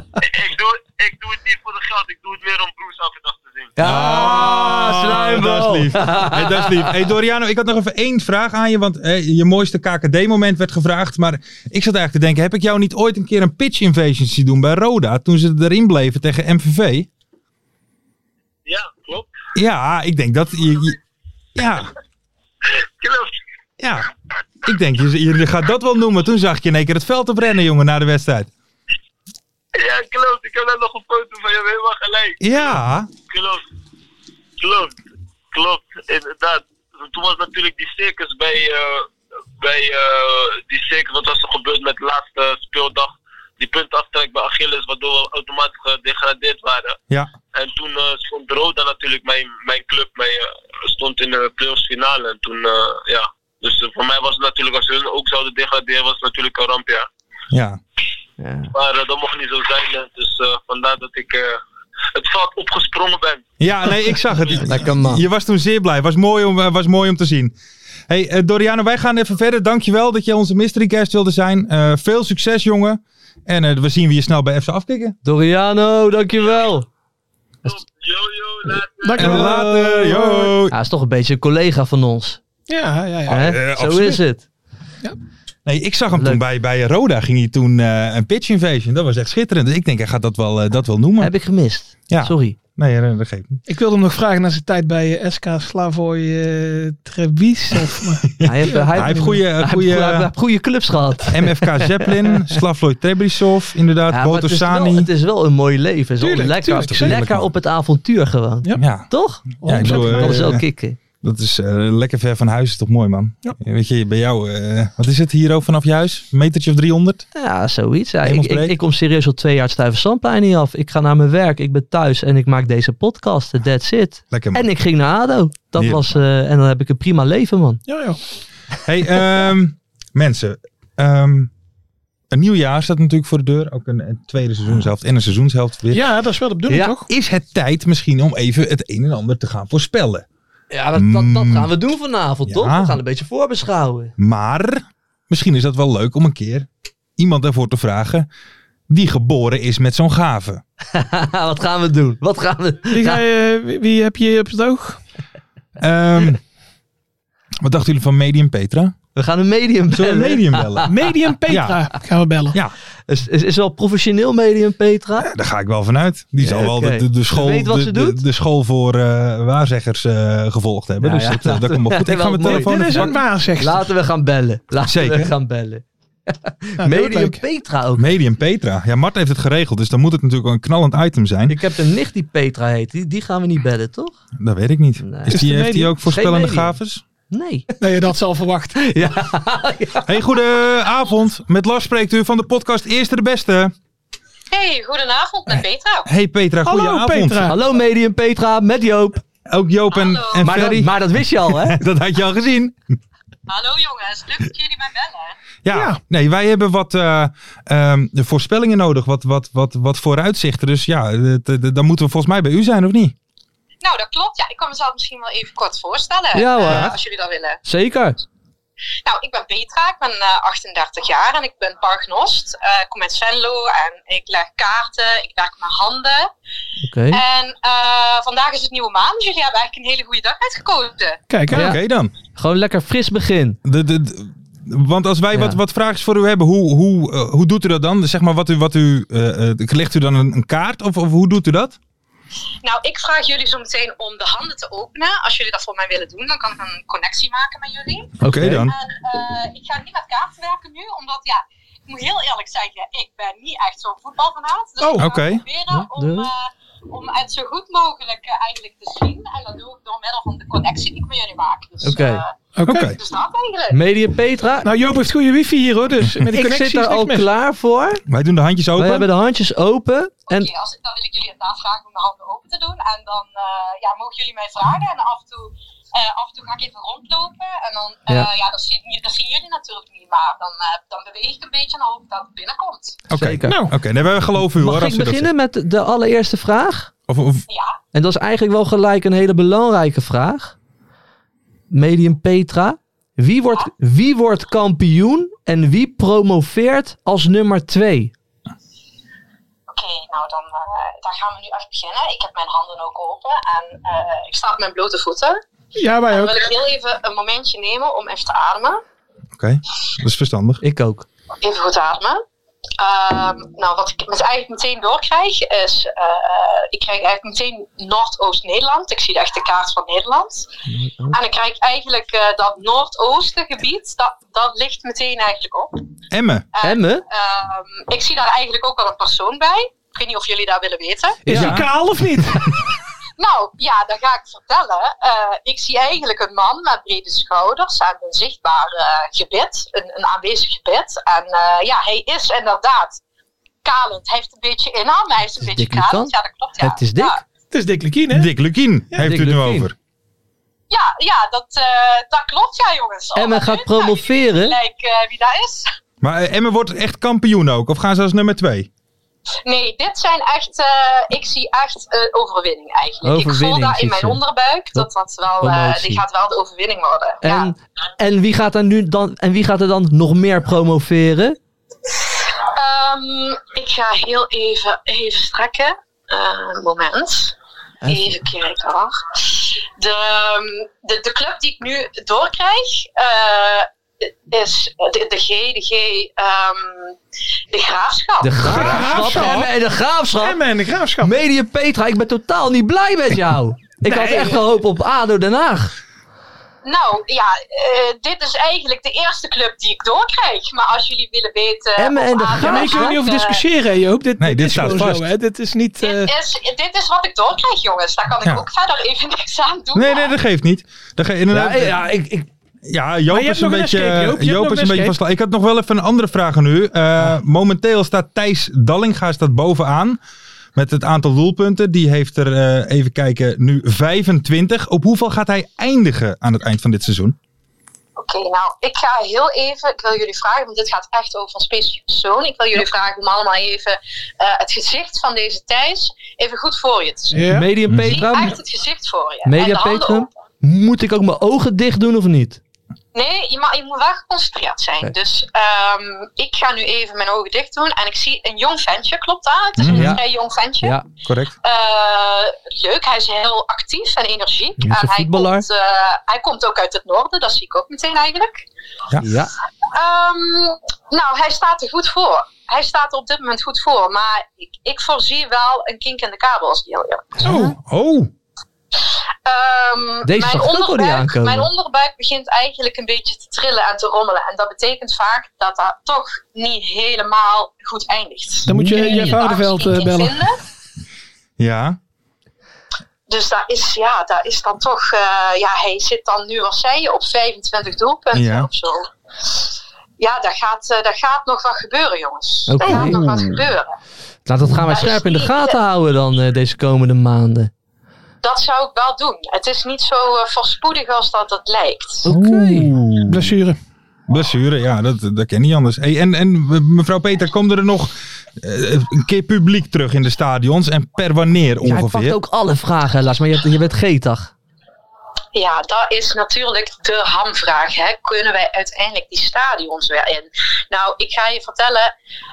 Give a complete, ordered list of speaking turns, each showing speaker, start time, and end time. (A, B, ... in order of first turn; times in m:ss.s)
0:00.2-0:03.7 A
0:03.8-0:06.9 B
0:03.8-0:17.1 C
0:18.6-0:19.3 A
0:19.5-0:21.0 C
0:21.6-0:21.9 C
0:23.0-0:23.3 A
0:23.8-0:24.1 C
0:24.6-0:28.5 C
0:29.7-0:32.7 A
0:32.4-0:33.1 C
0:33.3-0:33.6 A
0:34.6-0:35.0 A
0:35.5-0:47.0 A
0:47.5-0:57.1 A
0:57.5-0:57.8 C
0:58.4-0:58.7 B
0:58.7-1:01.6 A
1:02.1-1:03.4 A
1:03.6-1:07.5 C
1:04.6-1:05.2 B
1:08.1-1:15.2 C
1:15.2-1:16.8 B
1:17.6-1:19.4 A
1:19.0-1:20.5 D
1:19.2-1:20.7 C
1:20.7-1:22.4 B
1:22.7-1:23.4 D
1:23.3-1:24.2 C
1:23.3-1:24.4 B
1:25.6-1:31.3 C
1:26.2-1:26.4 B
1:31.2-1:32.6 B
1:32.1-1:33.6 C
1:33.7-1:39.2 D
1:38.4-1:40.3 C
1:38.4-1:42.6 B
1:41.3-1:45.1 C
1:44.1-1:51.0 B
1:46.2-1:47.2 D
1:46.9-1:47.5 C
1:48.8-1:50.6 C
1:49.6-1:50.6 D
1:51.2-1:57.3 C
1:57.3-2:07.8 B
1:58.2-1:58.8 C
2:04.3-2:04.7 C
2:05.8-2:06.2 C
2:07.9-2:08.2 D
2:08.8-2:11.5 C
2:12.3-2:16.1 C
2:15.9-2:17.1 D
2:16.7-2:16.9 B
2:17.0-2:20.2 C
2:20.7-2:24.1 B
2:21.0-2:21.7 C
2:22.4-2:23.0 C
2:24.2-2:28.3 C
2:28.9-2:30.6 C
2:30.9-2:33.2 B
2:32.9-2:35.0 D
2:35.8-2:36.4 C
2:37.6-2:39.0 C
2:39.2-2:40.8 B
2:39.9-2:40.9 C
2:40.8-2:42.6 D
2:41.5-2:41.8 C
2:43.1-2:45.3 B
2:45.2-2:53.2 C
2:46.4-2:48.2 B
2:51.0-2:58.1 B
2:52.4-2:53.9 D
2:54.8-2:55.3 C
2:56.8-2:57.4 D
2:58.0-3:01.6 C
3:01.5-3:04.2 B
3:04.4-3:07.0 C
3:05.0-3:05.5 B
3:05.3-3:05.9 D
3:06.0-3:06.8 B
3:07.3-3:07.7 B
3:07.8-3:08.8 D
3:08.8-3:10.1 B
3:10.0-3:13.7 C
3:14.5-3:16.1 E
3:15.5-3:17.6 C
3:16.6-3:17.6 D
3:17.5-3:19.2 B
3:19.4-3:22.8 C
3:19.9-3:20.6 E
3:20.4-3:21.8 B
3:23.5-3:25.3 E
3:25.6-3:33.1 C
3:25.7-3:26.0 D
3:33.8-3:37.6 E
3:36.3-3:37.0 B
3:36.6-3:36.9 C
3:37.6-3:38.2 B
3:39.0-3:46.3 E
3:46.8-3:47.2 B
3:47.1-3:51.2 E
3:51.3-3:51.7 D
3:51.5-3:51.8 B
3:51.5-3:52.1 C
3:52.4-3:53.6 B
3:53.6-4:01.8 C
3:55.3-3:55.6 B
4:02.6-4:23.8 E
4:08.2-4:08.7 B
4:08.2-4:08.7 C
4:14.8-4:15.1 D
4:15.0-4:15.4 C
4:15.7-4:16.3 B
4:21.8-4:22.2 B
4:22.6-4:22.9 D
4:22.6-4:23.0 C
4:23.7-4:24.7 B
4:24.6-4:27.3 D
4:26.3-4:28.0 B
4:28.1-4:29.1 C
4:28.8-4:30.5 B
4:30.3-4:43.0 E
4:43.1-4:45.3 C
4:43.1-4:43.6 B
4:43.4-4:43.7 D
4:44.5-4:46.9 B
4:47.1-4:47.4 C
4:47.5-4:47.8 E
4:47.9-4:50.5 B
4:51.7-4:58.1 B
4:59.7-5:05.4 E
5:05.7-5:06.5 D
5:06.1-5:08.8 E
5:09.4-5:10.6 C
5:10.6-5:11.1 B
5:11.4-5:12.2 E
5:12.8-5:20.5 E
5:20.7-5:21.2 B
5:21.1-5:25.8 E
5:26.1-5:26.4 C
5:26.5-5:31.2 E
5:26.6-5:27.0 B
5:31.2-5:32.5 D
5:31.3-5:31.6 B
5:31.3-5:31.7 C
5:33.2-5:43.0 E
5:43.6-5:47.2 E
5:45.4-5:47.2 B
5:47.5-5:48.3 D
5:48.1-5:49.7 C
5:49.0-5:49.7 B
5:50.7-5:55.6 E
5:53.1-5:54.6 B
5:56.0-5:58.7 C
5:59.4-6:07.5 E
6:03.0-6:04.2 B
6:05.4-6:06.0 B
6:07.2-6:11.4 B
6:12.4-6:17.3 E
6:17.8-6:18.2 B
6:17.9-6:27.0 E
6:27.5-6:28.4 E
6:28.2-6:30.4 B
6:28.4-6:29.5 D
6:28.5-6:29.4 C
6:30.2-6:31.1 D
6:31.0-6:35.7 B
6:33.8-6:34.4 D
6:36.6-6:43.4 E
6:41.8-6:43.0 B
6:42.4-6:46.1 D
6:44.2-6:45.1 C
6:45.8-6:50.1 E
6:49.7-6:51.9 C
6:51.3-6:52.3 B
6:52.6-7:00.0 C
6:53.1-6:55.0 D
7:00.5-7:07.2 C
7:08.0-7:17.2 E
7:17.1-7:17.5 D
7:17.3-7:18.4 B
7:17.7-7:18.1 C
7:17.8-7:20.1 E
7:19.2-7:22.4 B
7:22.9-7:30.8 E
7:29.6-7:30.0 C
7:29.6-7:30.0 B
7:31.0-7:31.3 C
7:31.4-7:38.4 E
7:34.6-7:35.4 B
7:39.0-7:39.3 B
7:39.7-7:47.2 E
7:47.2-7:48.1 C
7:47.2-7:47.5 D
7:49.2-8:00.4 E
7:50.0-7:51.5 B
7:58.5-7:59.2 C
7:58.5-8:00.2 D
8:01.4-8:01.8 C
8:03.1-8:13.7 E
8:08.1-8:08.5 C
8:12.5-8:13.0 B
8:12.6-8:13.4 C
8:14.3-8:17.5 B
8:14.7-8:15.6 E
8:18.2-8:22.0 E
8:22.0-8:22.7 B
8:22.1-8:23.3 C
8:23.1-8:23.6 D
8:24.1-8:32.2 C
8:31.6-8:34.3 B
8:35.3-8:41.9 E